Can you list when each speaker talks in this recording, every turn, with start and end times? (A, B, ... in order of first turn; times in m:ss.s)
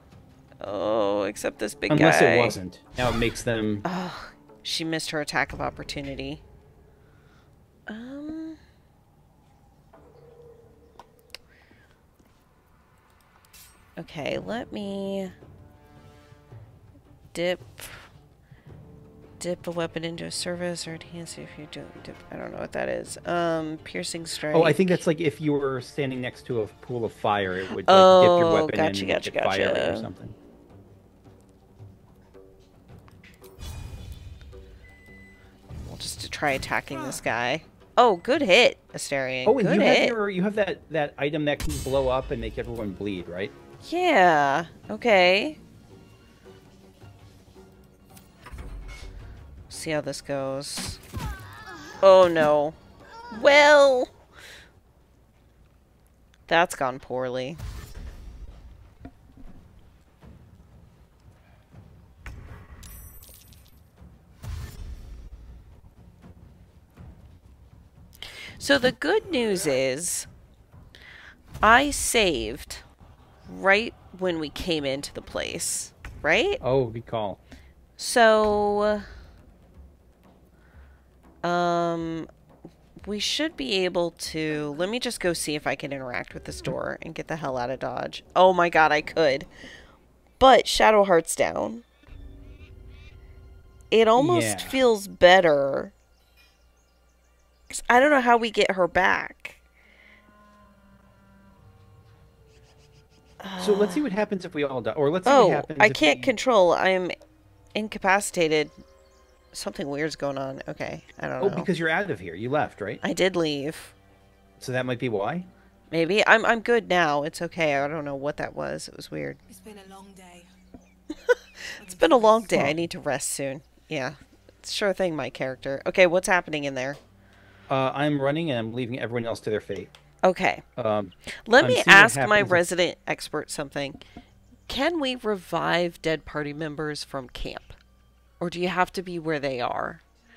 0:00.6-0:02.6 A
0:01.9-0:03.8 B
0:03.8-0:06.4 A
0:07.9-0:08.6 A
0:14.0-0:15.3 A
0:17.3-0:18.1 A
0:19.4-0:25.0 A
0:24.5-0:30.4 B
0:27.8-0:30.1 A
0:35.8-0:40.2 A
0:39.4-0:43.5 B
0:43.8-0:45.6 A
0:49.7-0:51.0 A
0:52.0-0:52.8 A
0:53.3-0:54.1 A
0:56.5-0:57.6 A
1:08.6-1:10.3 A
1:11.6-1:12.8 A
1:13.4-1:16.6 A
1:16.6-1:17.4 B
1:18.0-1:19.1 A
1:21.4-1:22.3 A
1:23.0-1:29.5 A
1:30.4-1:31.8 A
1:33.9-1:35.9 A
1:34.2-1:34.8 B
1:37.7-1:39.6 A
1:43.4-1:44.0 A
1:43.6-1:46.3 B
1:45.2-1:47.1 A
1:47.7-1:48.7 A
1:49.5-1:51.7 A
1:51.4-1:53.0 B
1:53.0-1:53.9 A
1:54.6-1:55.5 B
1:55.9-1:59.4 A
1:59.5-2:00.5 C
2:01.3-2:07.0 A
2:01.8-2:02.7 C
2:02.5-2:02.8 B
2:07.7-2:09.9 B
2:10.2-2:10.6 A
2:10.8-2:12.6 B
2:11.3-2:14.0 A
2:14.7-2:17.8 A
2:18.4-2:20.0 A